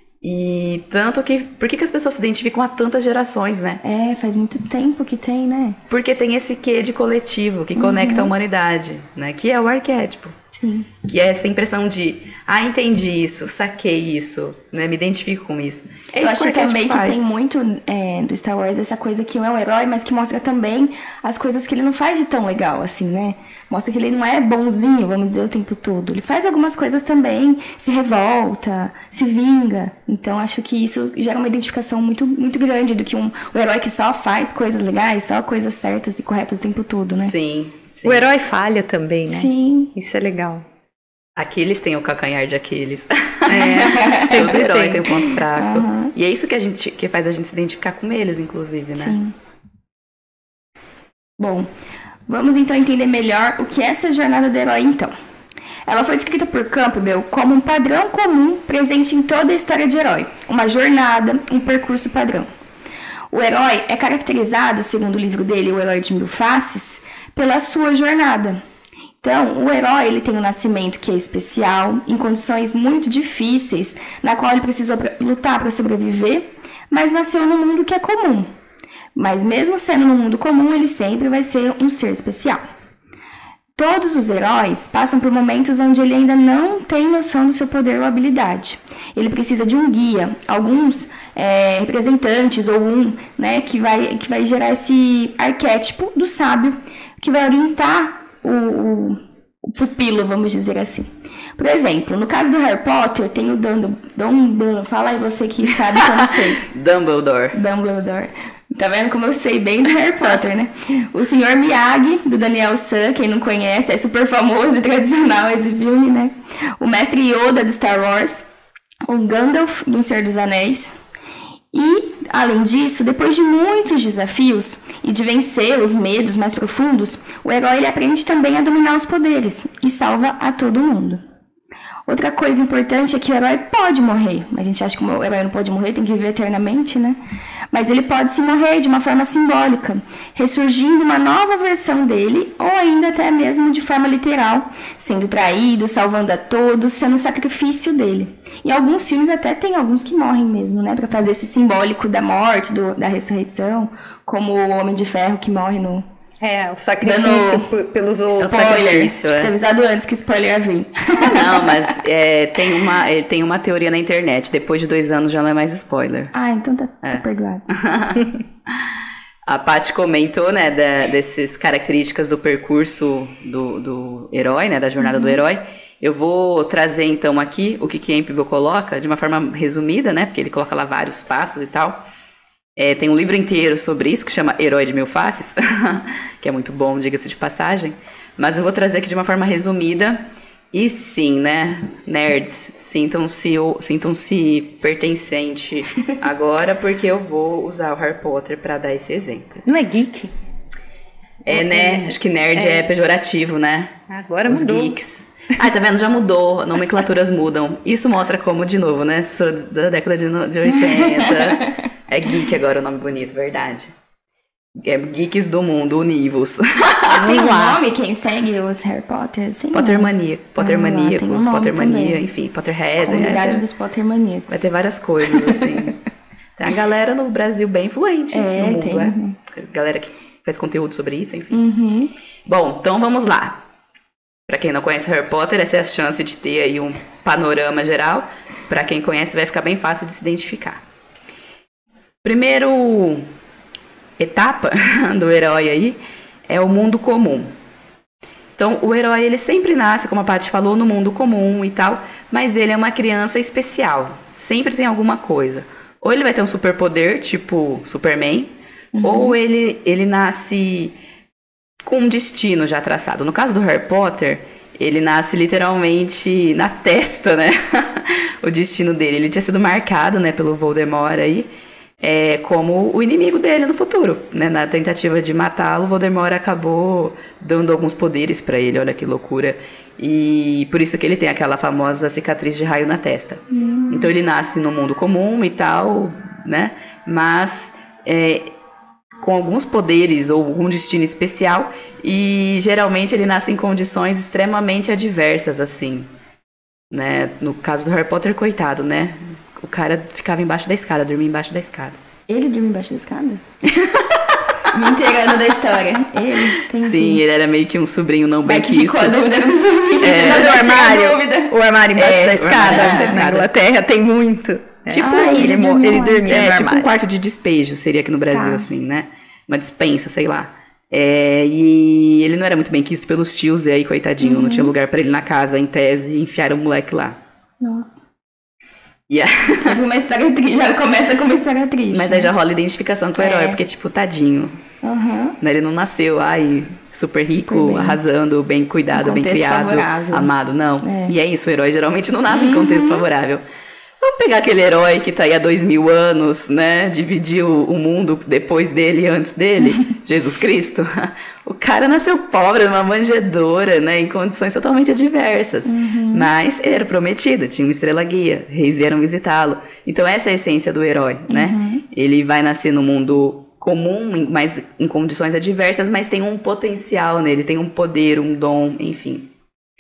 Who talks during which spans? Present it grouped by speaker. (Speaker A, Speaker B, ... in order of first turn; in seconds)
Speaker A: 0.2-3.8, 5.9-10.3, 11.1-17.3, 37.2-38.3, 41.4-49.2, 106.6-107.6, 158.4-159.5, 161.2-166.3, 167.0-168.4, 169.5-182.0, 182.8-199.6, 201.5-203.9, 204.5-213.9, 214.8-217.2, 219.7-223.7, 224.5-226.0, 226.6-231.6, 232.5-233.6, 234.5-240.8, 242.2-243.3, 244.2-247.5, 248.6-261.0, 261.8-271.5, 272.0-288.5, 289.2-296.1, 296.9-302.0, 303.6-304.7, 306.7-309.2, 310.0-310.7, 311.9-313.5, 314.9-315.5, 316.2-327.2, 329.1-329.8, 331.9-334.6, 335.4-343.4, 344.0-369.3
Speaker B: 3.8-5.8, 7.8-8.3, 10.6-10.9, 16.2-37.3, 39.3-39.9, 43.8-46.1, 49.0-49.4, 51.4-51.7, 52.3-55.1, 55.9-62.5, 63.3-68.6, 69.2-78.5, 79.2-82.6, 83.8-106.7, 107.5-118.5, 119.1-121.0, 121.7-131.2, 132.1-137.2, 137.7-156.1, 157.0-157.7, 158.4-162.0, 166.3-167.7, 175.0-175.4, 210.7-211.8, 217.2-222.2, 223.0-224.6, 225.4-225.7, 228.3-229.4, 231.5-232.1, 258.9-259.4, 283.5-284.1, 302.3-303.4, 304.7-307.2, 308.4-311.5, 312.7-313.2, 314.9-316.4, 318.3-318.7, 324.2-324.7, 327.6-328.0, 329.6-332.3, 333.2-333.6, 334.8-335.4, 337.5-338.0, 338.9-340.3, 340.8-341.1, 342.3-343.1, 355.7-356.3, 361.3-361.9
Speaker C: 38.0-40.7, 43.5-45.1, 156.4-158.8, 199.7-200.3, 201.5-202.9, 204.1-205.0, 217.1-217.8, 310.1-316.9